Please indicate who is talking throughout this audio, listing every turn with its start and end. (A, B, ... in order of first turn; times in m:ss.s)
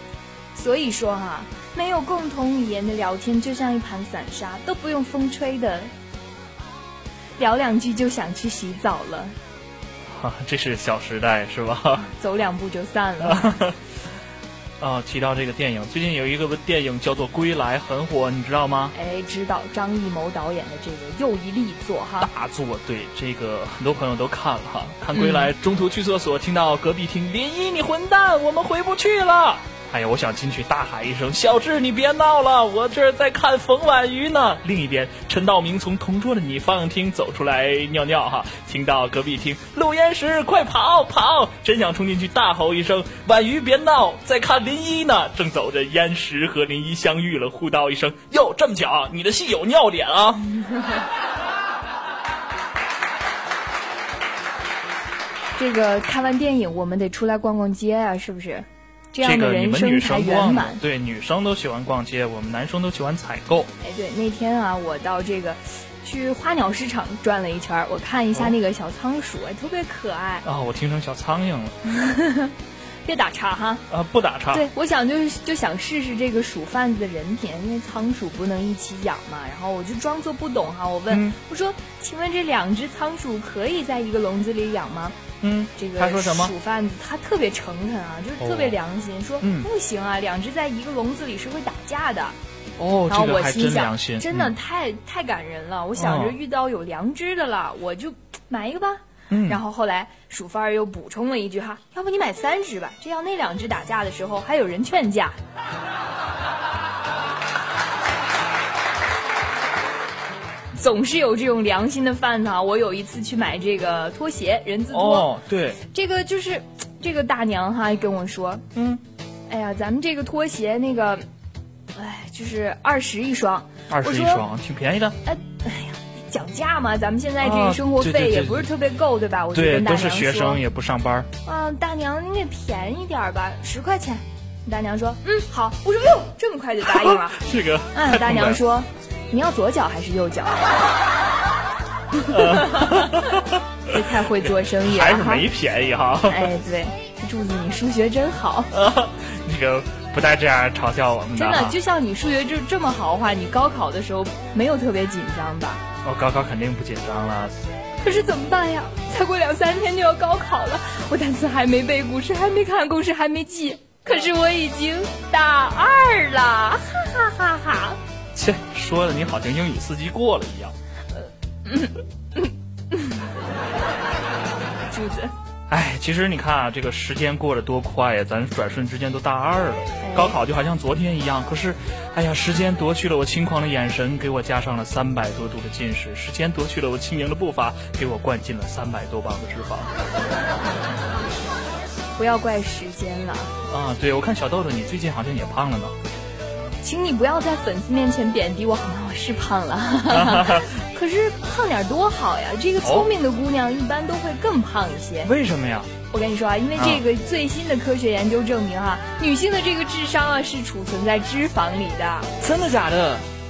0:00.5-0:05.9 A
0:07.4-0:09.4 A
0:10.1-0:12.0 B
0:12.0-0:13.6 A
0:13.2-0:13.8 B
0:14.8-0:18.9 B
0:18.9-0:22.3 A
0:22.2-0:50.6 B
0:25.1-0:25.5 A
0:55.6-1:00.8 A
0:59.2-1:03.7 B
1:03.8-1:10.4 A
1:10.4-1:11.8 B
1:11.9-1:12.5 A
1:13.0-1:13.8 A
1:13.9-1:14.7 B
1:14.5-1:25.2 A
1:21.1-1:21.4 B
1:25.4-1:26.5 B
1:25.8-1:32.4 A
1:28.4-1:28.8 B
1:29.4-1:29.7 B
1:32.8-1:34.5 B
1:33.1-1:45.4 A
1:36.0-1:36.4 B
1:39.3-1:39.6 B
1:50.7-1:58.6 A
1:54.9-1:55.8 B
1:58.7-1:59.0 B
1:59.5-2:01.2 A
2:01.9-2:04.4 A
2:03.9-2:05.2 B
2:05.2-2:10.6 A
2:07.4-2:08.7 B
2:09.5-2:11.3 B
2:11.4-2:17.4 A
2:16.8-2:18.6 B
2:17.9-2:20.7 A
2:22.2-2:23.3 A
2:22.3-2:26.5 B
2:23.9-2:25.4 A
2:26.3-2:28.7 A
2:28.7-2:31.8 B
2:31.3-2:35.8 A
2:36.0-2:37.6 B
2:38.0-2:48.0 A
2:48.3-2:50.7 B
2:51.2-2:53.2 A
2:54.9-2:55.3 A
2:55.7-3:09.9 B
3:00.0-3:00.4 A
3:12.2-3:13.5 A
3:13.7-3:15.9 B
3:16.8-3:25.3 A
3:20.1-3:20.7 B
3:22.8-3:23.1 B
3:25.2-3:25.9 B
3:26.1-3:32.3 A
3:26.8-3:27.0 B
3:32.4-3:33.2 B